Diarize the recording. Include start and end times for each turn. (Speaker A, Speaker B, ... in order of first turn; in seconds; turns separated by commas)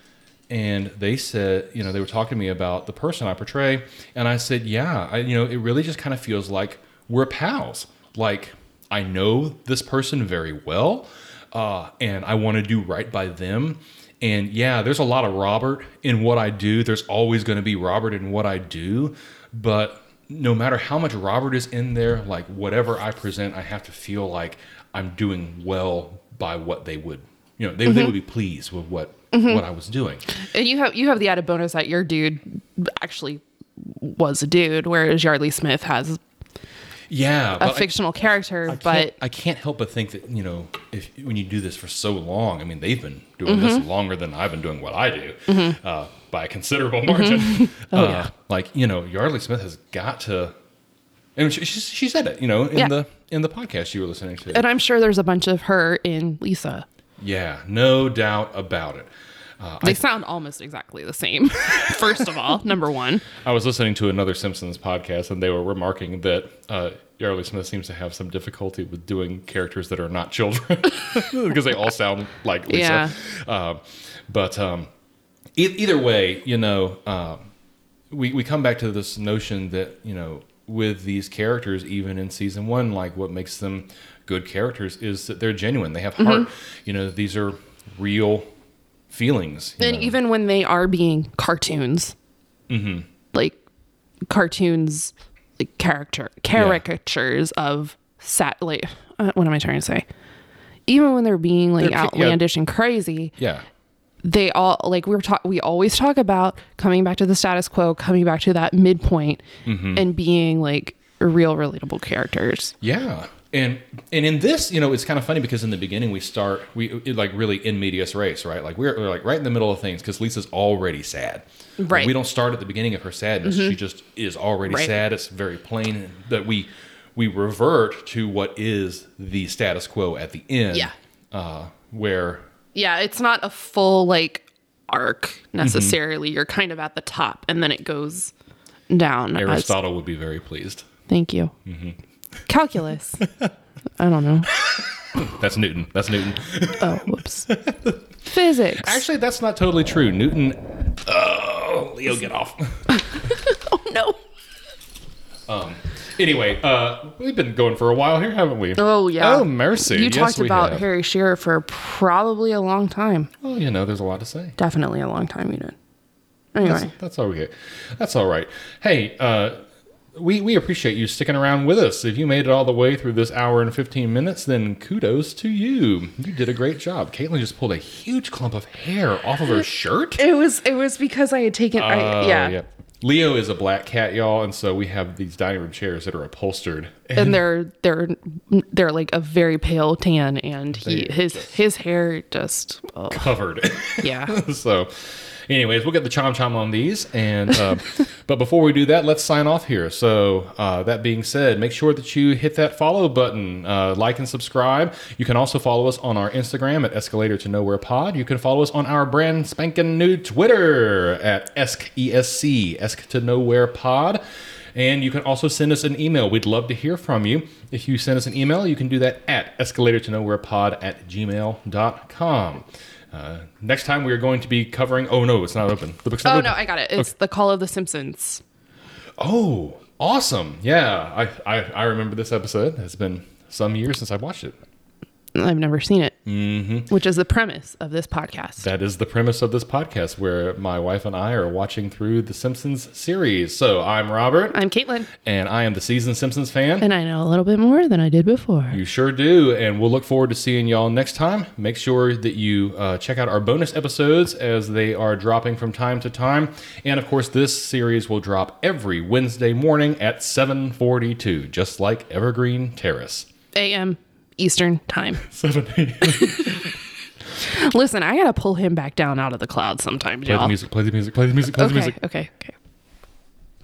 Speaker A: 0.5-30.2, Speaker B: 27.9-28.1, Speaker B: 29.3-29.6, Speaker B: 30.3-36.2, Speaker A: 37.1-38.0, Speaker B: 37.6-39.1, Speaker A: 38.7-50.5, Speaker B: 43.5-43.8, Speaker B: 45.5-45.8, Speaker B: 47.1-48.3, Speaker A: 51.4-54.7, Speaker B: 54.5-56.9, Speaker A: 57.2-60.0, Speaker B: 59.8-63.3, Speaker A: 63.3-74.9, Speaker B: 72.7-73.1, Speaker A: 75.6-77.4, Speaker A: 78.1-88.5, Speaker B: 86.2-86.5, Speaker A: 89.1-90.2, Speaker B: 89.8-92.2, Speaker A: 92.7-93.1, Speaker B: 93.3-93.6, Speaker B: 94.3-100.1, Speaker A: 96.5-96.8, Speaker B: 100.9-103.3, Speaker A: 101.8-102.4, Speaker A: 103.4-103.7, Speaker B: 104.2-112.8, Speaker A: 109.7-110.0, Speaker A: 112.8-132.4, Speaker B: 121.8-122.1, Speaker B: 123.5-123.8, Speaker B: 124.7-124.9, Speaker B: 132.8-138.3, Speaker A: 135.6-136.0, Speaker B: 138.9-139.8, Speaker A: 139.4-140.9, Speaker B: 141.1-141.6, Speaker A: 141.7-142.0, Speaker B: 142.5-143.2, Speaker A: 143.2-143.5, Speaker B: 144.0-144.5, Speaker A: 144.5-153.0, Speaker B: 146.8-147.5, Speaker B: 148.3-149.0, Speaker B: 153.1-154.2, Speaker A: 155.5-160.9, Speaker B: 158.8-163.3, Speaker A: 163.4-164.6, Speaker B: 164.6-165.8, Speaker B: 166.5-166.9, Speaker A: 166.6-169.6, Speaker A: 170.2-180.2, Speaker B: 180.2-182.6, Speaker A: 181.8-187.4, Speaker B: 187.2-193.3, Speaker A: 190.7-191.6, Speaker A: 193.1-214.2, Speaker B: 194.0-194.4, Speaker A: 214.8-227.1, Speaker B: 226.2-228.4, Speaker A: 229.2-234.6, Speaker B: 235.3-236.2, Speaker A: 236.2-236.9, Speaker B: 236.9-238.7, Speaker A: 238.6-244.6, Speaker B: 244.5-245.1, Speaker A: 245.2-246.9, Speaker B: 246.8-248.8, Speaker A: 248.7-263.3, Speaker B: 263.6-265.2, Speaker A: 265.2-266.8, Speaker B: 266.1-266.7, Speaker B: 267.4-270.6, Speaker A: 270.2-272.0, Speaker B: 271.6-272.6